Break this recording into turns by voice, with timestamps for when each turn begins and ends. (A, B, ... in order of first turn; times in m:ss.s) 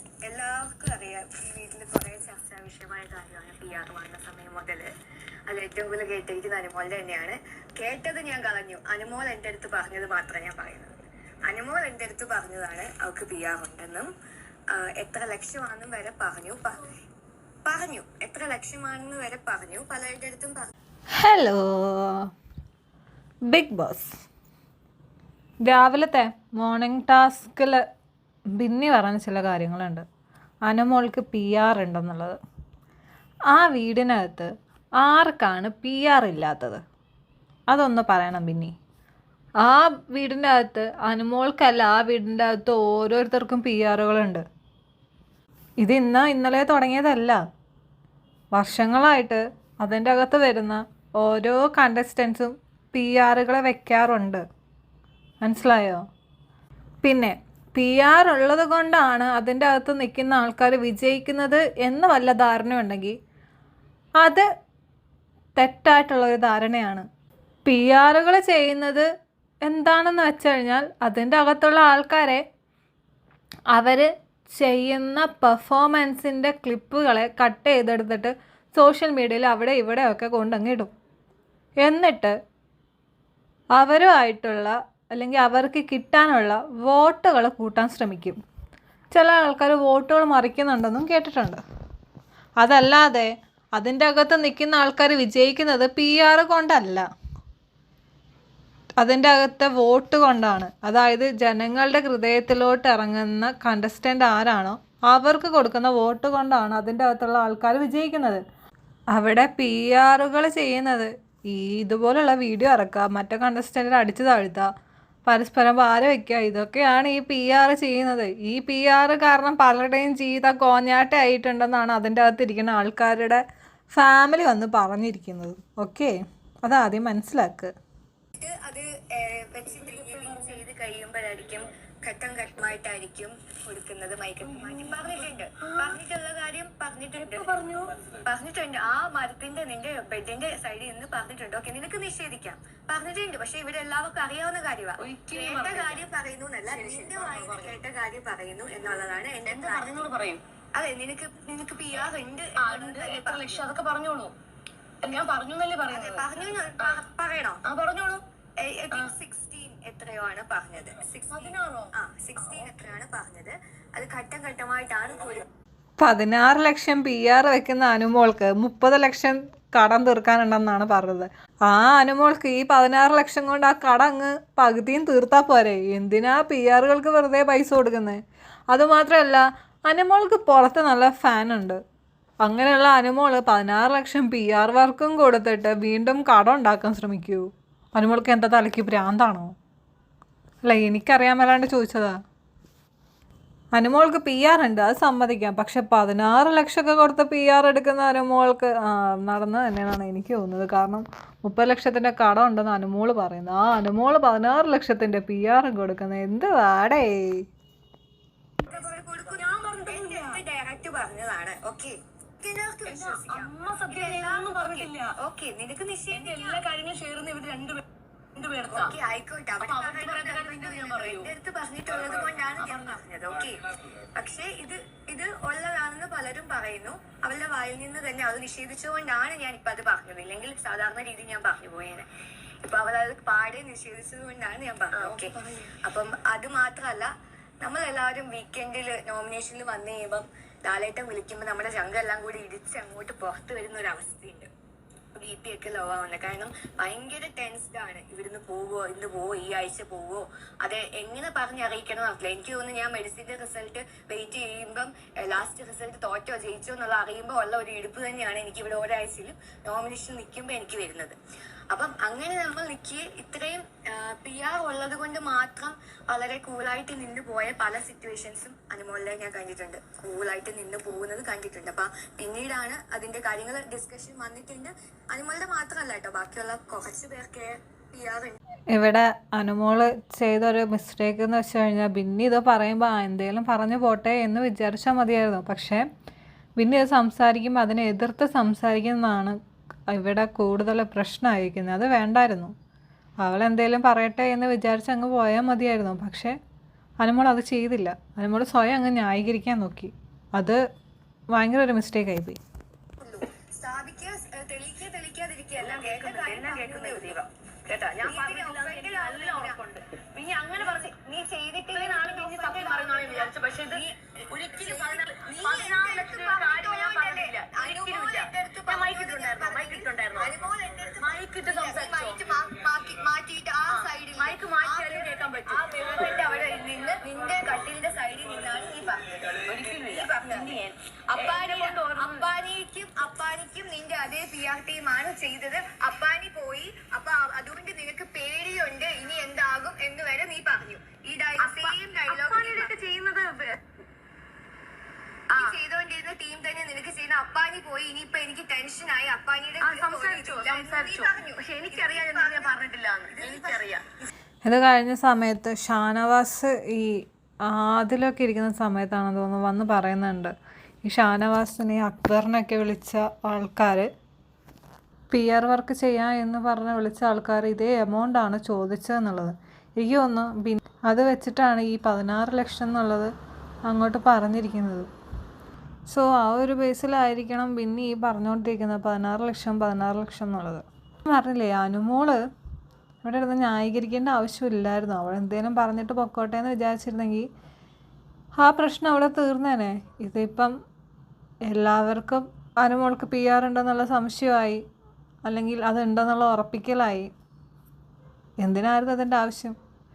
0:00.2-0:04.9 A
0:05.5-0:14.1 A
0:14.7-0:16.8 A
0:17.6-0:20.7 A
0:21.1-0:22.3 B
0:23.5-0:24.2 B
0:25.6-0:27.8 B
0:28.6-0:30.0 B
0:30.6-0:32.4 B
0:33.5-0:36.8 B
0:37.7-0:38.7 B
0:39.6-0:44.4 B
0:45.8-0:47.4 B
0:48.5-0:54.4 B
0:55.4-0:56.0 B
0:57.0-1:03.2 B
1:04.2-1:04.5 B
1:05.6-1:07.0 B
1:07.6-1:09.0 B
1:09.6-1:12.4 B
1:13.7-1:20.9 B
1:21.8-1:22.4 B
1:23.8-1:28.4 B
1:29.1-1:31.6 B
1:32.6-1:37.1 B
1:39.0-1:48.4 B
1:49.1-1:54.7 B
1:55.2-2:03.4 B
2:03.9-2:07.7 B
2:08.3-2:30.1 A
2:09.7-2:10.6 C
2:14.4-2:16.0 C
2:17.2-2:18.0 C
2:25.0-2:26.0 C
2:26.7-2:27.8 C
2:29.4-2:30.4 C
2:30.7-2:33.6 A
2:32.6-2:34.3 C
2:35.0-2:36.2 C
2:35.9-2:37.6 A
2:37.6-2:38.2 C
2:38.6-2:45.5 A
2:41.3-2:42.7 C
2:46.0-2:58.2 B
2:58.7-3:01.8 B
3:02.4-3:09.5 B
3:10.6-3:12.2 B
3:13.7-3:27.4 B
3:28.6-3:36.6 A
3:28.7-3:30.4 C
3:32.8-3:35.1 C
3:36.1-3:38.9 C
3:38.7-3:52.1 A
3:39.6-3:41.3 C
3:41.9-3:43.0 C
3:52.6-3:57.1 A
3:54.9-3:55.7 C
3:57.6-4:04.5 A
4:05.2-4:21.2 A
4:21.7-4:38.4 A
4:38.7-4:45.8 B
4:46.6-4:49.4 B
4:49.9-4:52.5 B
4:53.2-4:56.4 B
4:57.0-5:00.6 B
5:01.3-5:02.4 B
5:03.0-5:07.2 A
5:05.6-5:10.9 C
5:08.0-5:09.6 A
5:10.5-5:42.7 A
5:11.6-5:20.3 C
5:21.0-5:22.3 C
5:23.7-5:26.4 C
5:29.4-5:32.3 C
5:41.4-5:43.7 C
5:45.3-5:54.1 A
5:49.6-5:53.8 C
5:54.4-6:00.3 B
6:00.8-6:03.9 B
6:05.1-6:13.1 B
6:13.6-6:14.9 B
6:15.9-6:22.2 B
6:23.0-6:27.3 B
6:28.4-6:30.5 B
6:31.5-6:34.6 B
6:35.2-6:37.1 B
6:38.4-6:39.5 B